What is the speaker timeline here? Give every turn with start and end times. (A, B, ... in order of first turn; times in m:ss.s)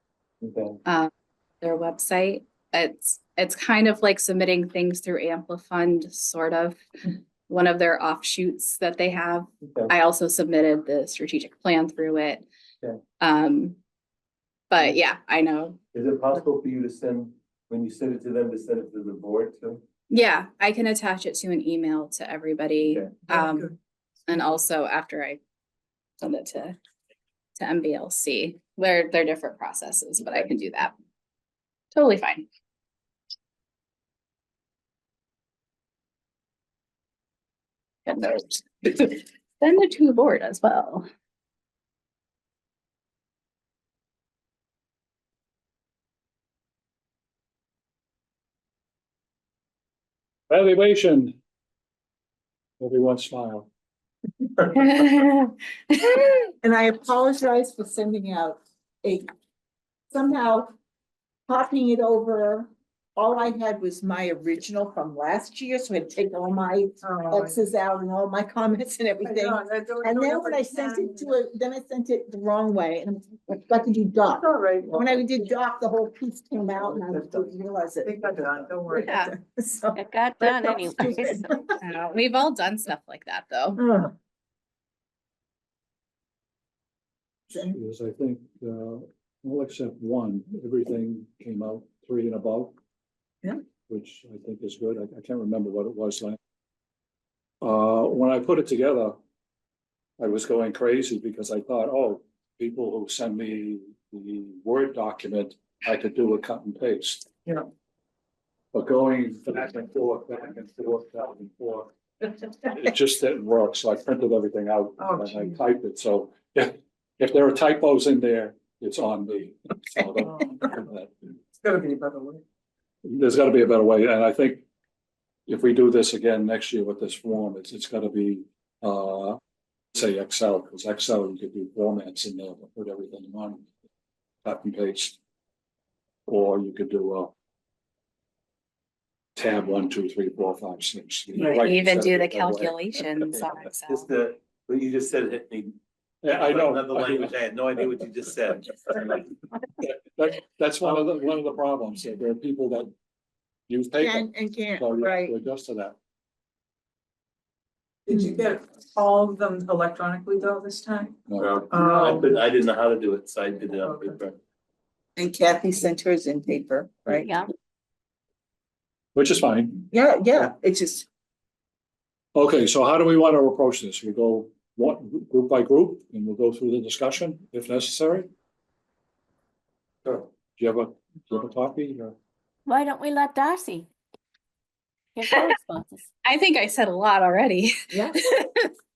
0:00.4-0:00.8 A
0:00.8-0:06.8 B
0:07.5-0:12.4 B
0:09.6-0:09.9 A
0:13.2-0:13.8 B
0:14.7-0:15.8 B
0:15.9-0:19.8 A
0:20.1-0:23.7 B
0:22.9-0:23.2 A
0:23.3-0:23.7 C
0:24.3-0:25.4 B
0:26.2-0:26.8 B
0:27.6-0:30.9 B
0:31.9-0:32.4 B
0:38.0-0:41.0 B
0:50.5-0:51.4 D
0:52.8-0:53.7 D
0:54.7-0:56.5 B
0:56.6-0:59.3 E
1:00.1-1:00.7 E
1:01.5-1:21.6 E
1:07.0-1:07.6 C
1:09.2-1:11.4 C
1:14.3-1:15.2 C
1:17.0-1:17.4 C
1:18.0-1:19.1 C
1:19.0-1:19.3 B
1:19.9-1:21.5 F
1:21.8-1:23.8 B
1:23.8-1:24.1 E
1:27.5-1:32.7 D
1:33.9-1:36.4 D
1:37.6-1:39.2 D
1:40.2-1:47.3 D
1:48.7-2:01.3 D
1:55.0-1:55.5 C
2:00.2-2:00.7 C
2:01.6-2:02.4 C
2:03.0-2:04.7 D
2:05.5-2:09.4 D
2:09.9-2:13.6 D
2:14.4-2:15.2 D
2:16.3-2:17.3 D
2:19.4-2:22.8 D
2:21.4-2:24.1 B
2:23.3-2:25.8 A
2:26.2-2:27.4 D
2:26.3-2:28.8 A
2:29.8-2:32.9 D
2:33.7-2:36.0 D
2:34.0-2:35.3 E
2:38.1-2:41.2 C
2:38.1-2:38.4 E
2:41.3-2:41.6 D
2:41.4-2:44.4 A
2:41.7-2:42.3 C
2:43.8-2:44.2 C
2:45.2-2:47.3 E
2:47.1-2:47.5 F
2:49.1-2:49.9 D
2:49.9-2:51.1 E
2:52.3-2:58.3 D
3:00.6-3:02.2 D
3:02.7-3:03.9 F
3:05.1-3:06.0 F
3:06.2-3:08.7 B